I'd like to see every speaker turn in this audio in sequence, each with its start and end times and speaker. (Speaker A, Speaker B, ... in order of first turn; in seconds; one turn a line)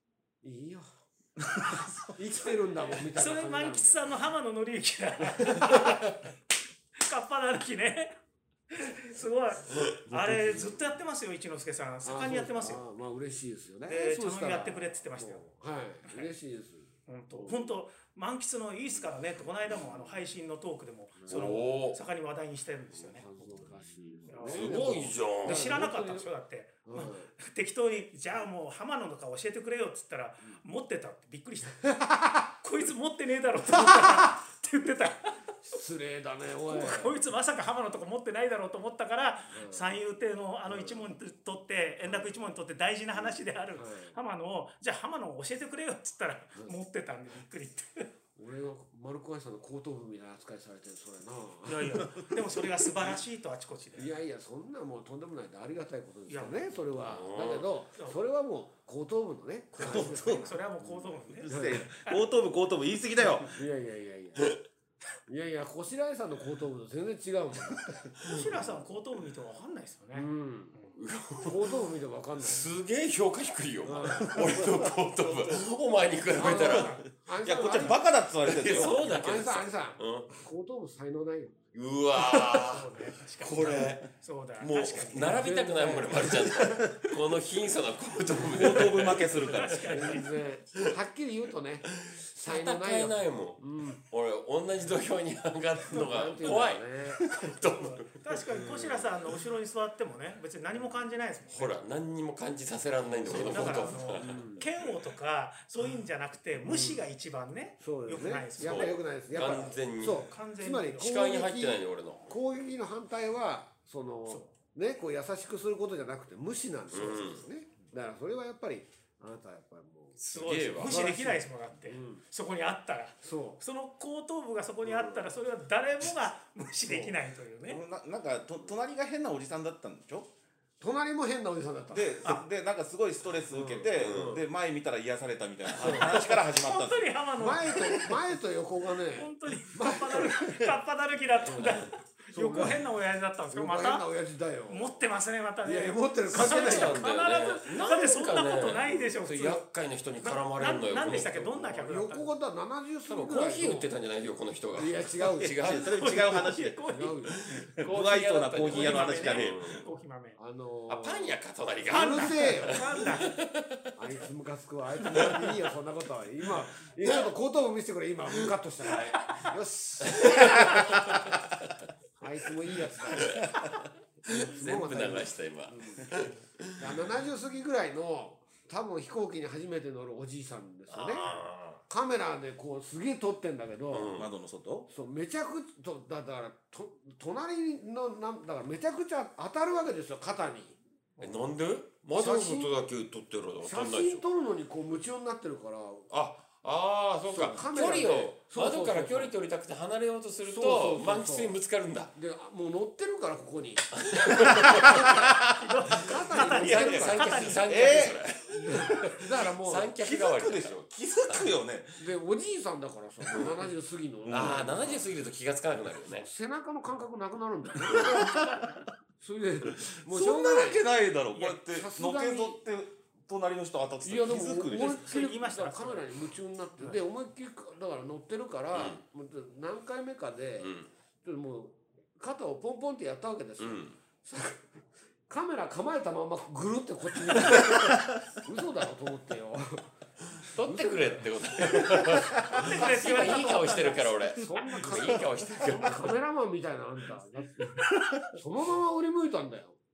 Speaker A: 0.4-0.9
Speaker B: 1.5-2.1
Speaker A: 2.1-4.0
Speaker C: 3.1-6.3
Speaker A: 5.4-6.0
Speaker C: 7.0-8.1
Speaker C: 8.7-12.8
Speaker A: 10.1-10.8
Speaker A: 12.0-17.7
Speaker C: 13.9-15.4
Speaker C: 16.1-16.3
Speaker C: 17.1-23.3
Speaker A: 19.7-20.1
Speaker A: 21.2-21.6
Speaker D: 21.3-22.0
Speaker A: 22.9-26.3
Speaker C: 24.3-31.9
Speaker D: 24.4-25.8
Speaker A: 26.8-27.3
Speaker A: 31.9-32.5
Speaker C: 32.6-35.4
Speaker A: 33.7-34.3
Speaker A: 35.6-37.2
Speaker C: 36.7-48.1
Speaker A: 39.5-40.0
Speaker A: 40.6-41.1
Speaker A: 42.0-42.3
Speaker A: 43.1-44.2
Speaker A: 48.4-52.1
Speaker C: 51.7-54.1
Speaker A: 53.9-61.9
Speaker C: 56.3-56.8
Speaker D: 57.1-57.7
Speaker C: 59.7-62.2
Speaker B: 59.8-60.5
Speaker B: 61.3-63.6
Speaker A: 63.5-64.5
Speaker A: 65.3-68.7
Speaker C: 68.2-70.9
Speaker A: 70.1-70.8
Speaker D: 71.0-71.8
Speaker A: 71.4-72.7
Speaker D: 72.4-77.0
Speaker A: 73.8-74.4
Speaker B: 74.2-75.5
Speaker A: 76.3-78.0
Speaker C: 76.5-77.0
Speaker B: 77.4-79.5
Speaker C: 77.6-77.9
Speaker D: 78.4-80.4
Speaker A: 78.7-81.5
Speaker D: 81.7-82.9
Speaker C: 82.5-85.5
Speaker D: 83.4-84.0
Speaker B: 83.4-84.1
Speaker B: 84.6-85.4
Speaker D: 85.0-89.5
Speaker A: 85.2-86.8
Speaker B: 88.5-90.0
Speaker C: 89.2-90.3
Speaker A: 89.9-94.0
Speaker D: 91.9-99.2
Speaker A: 95.9-97.2
Speaker C: 97.6-101.7
Speaker D: 101.5-104.5
Speaker A: 103.0-104.7
Speaker C: 103.3-111.2
Speaker A: 106.6-107.1
Speaker A: 107.8-120.2
Speaker D: 108.6-110.3
Speaker D: 111.0-112.3
Speaker C: 114.3-114.5
Speaker D: 116.9-117.4
Speaker D: 120.2-121.0
Speaker C: 120.3-127.8
Speaker A: 120.8-122.2
Speaker A: 123.2-123.6
Speaker A: 124.8-125.3
Speaker A: 126.9-127.2
Speaker B: 127.6-130.3
Speaker A: 130.8-132.2
Speaker B: 131.9-137.1
Speaker A: 133.5-134.4
Speaker D: 134.0-134.4
Speaker A: 135.7-136.2
Speaker C: 135.8-138.2
Speaker A: 137.4-140.4
Speaker C: 139.1-144.0
Speaker B: 140.1-140.7
Speaker A: 141.4-142.9
Speaker A: 143.5-145.1
Speaker C: 144.7-149.6
Speaker A: 145.6-147.0
Speaker D: 146.3-151.5
Speaker C: 150.2-152.3
Speaker A: 151.5-153.9
Speaker D: 153.1-156.0
Speaker A: 154.7-155.7
Speaker B: 155.4-156.8
Speaker C: 155.8-157.4
Speaker A: 156.9-157.4
Speaker D: 157.3-159.8
Speaker B: 157.8-159.8
Speaker C: 158.6-160.4
Speaker A: 160.4-163.0
Speaker D: 160.9-163.9
Speaker C: 161.9-163.4
Speaker A: 163.9-171.2
Speaker B: 165.1-165.5
Speaker D: 167.0-167.3
Speaker D: 168.3-169.5
Speaker D: 170.0-171.4
Speaker B: 170.7-171.1
Speaker A: 172.2-173.5
Speaker D: 173.1-173.5
Speaker D: 174.2-176.9
Speaker A: 174.3-176.1
Speaker A: 176.8-181.3
Speaker D: 180.9-181.8
Speaker A: 181.9-184.1
Speaker D: 183.9-184.3
Speaker B: 184.2-184.9
Speaker A: 184.9-190.8
Speaker D: 191.2-194.2
Speaker A: 192.2-192.7
Speaker A: 193.6-196.1
Speaker D: 196.1-202.1
Speaker A: 197.3-199.3
Speaker A: 200.5-201.6
Speaker A: 202.1-205.1
Speaker D: 204.0-205.0
Speaker B: 204.8-205.5
Speaker C: 204.8-208.1
Speaker A: 206.0-207.6
Speaker B: 206.4-209.2
Speaker D: 206.7-211.5
Speaker A: 208.5-209.9
Speaker B: 210.0-212.0
Speaker A: 212.0-215.1
Speaker D: 213.3-213.7
Speaker D: 214.3-216.3
Speaker A: 216.1-218.3
Speaker B: 217.8-218.7
Speaker C: 218.3-218.7
Speaker A: 219.2-222.6
Speaker B: 219.8-225.2
Speaker A: 224.0-230.7
Speaker C: 224.7-226.1
Speaker D: 228.7-229.0
Speaker D: 230.6-230.9
Speaker A: 231.2-234.7
Speaker D: 233.6-234.0
Speaker A: 235.3-239.9
Speaker B: 237.6-238.1
Speaker D: 240.3-246.1
Speaker A: 240.6-243.4
Speaker C: 242.5-244.5
Speaker A: 244.4-249.8